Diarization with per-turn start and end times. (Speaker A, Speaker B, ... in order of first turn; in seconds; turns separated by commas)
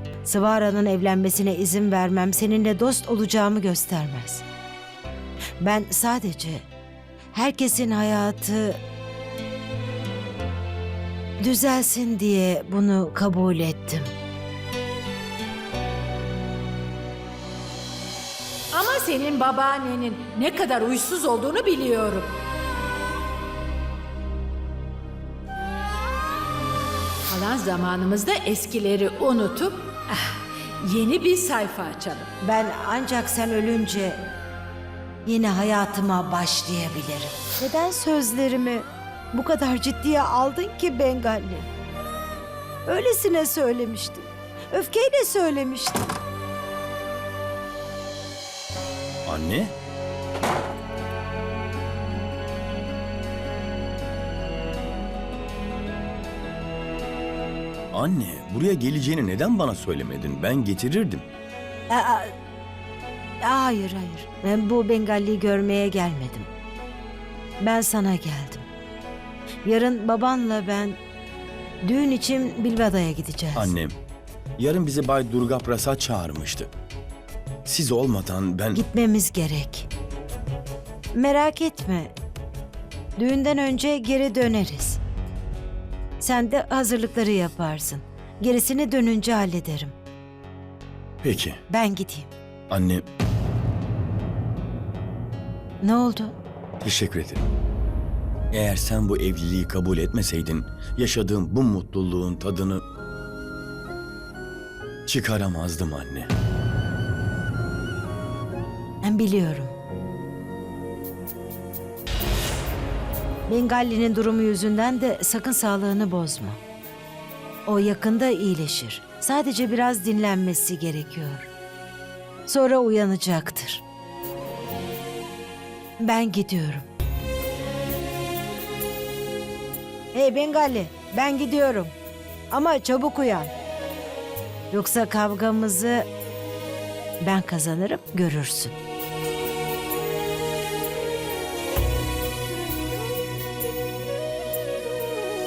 Speaker A: 0.2-4.4, Speaker A: 5.6-6.7, Speaker A: 7.3-8.8, Speaker A: 11.4-14.1, Speaker B: 18.7-22.3, Speaker B: 27.3-29.9, Speaker B: 30.8-32.3, Speaker A: 32.4-34.2, Speaker A: 35.2-41.7, Speaker A: 42.9-46.1, Speaker C: 49.2-49.7, Speaker C: 57.9-61.2, Speaker A: 61.9-62.3, Speaker A: 63.4-66.5, Speaker A: 67.6-68.7, Speaker A: 69.6-71.0, Speaker A: 71.8-73.7, Speaker C: 73.5-74.0, Speaker C: 74.6-76.7, Speaker C: 77.6-78.8, Speaker A: 78.7-79.9, Speaker A: 81.1-82.1, Speaker A: 83.2-85.0, Speaker A: 86.2-89.9, Speaker C: 91.2-91.6, Speaker A: 91.7-92.3, Speaker C: 92.7-93.0, Speaker A: 95.8-96.3, Speaker C: 96.8-97.4, Speaker C: 98.5-102.8, Speaker C: 105.1-106.3, Speaker A: 109.0-109.7, Speaker A: 113.5-116.6, Speaker A: 117.7-121.5, Speaker A: 122.5-123.8, Speaker A: 126.0-126.8, Speaker A: 130.1-131.9, Speaker A: 132.5-133.5, Speaker A: 134.7-136.1, Speaker A: 137.2-138.8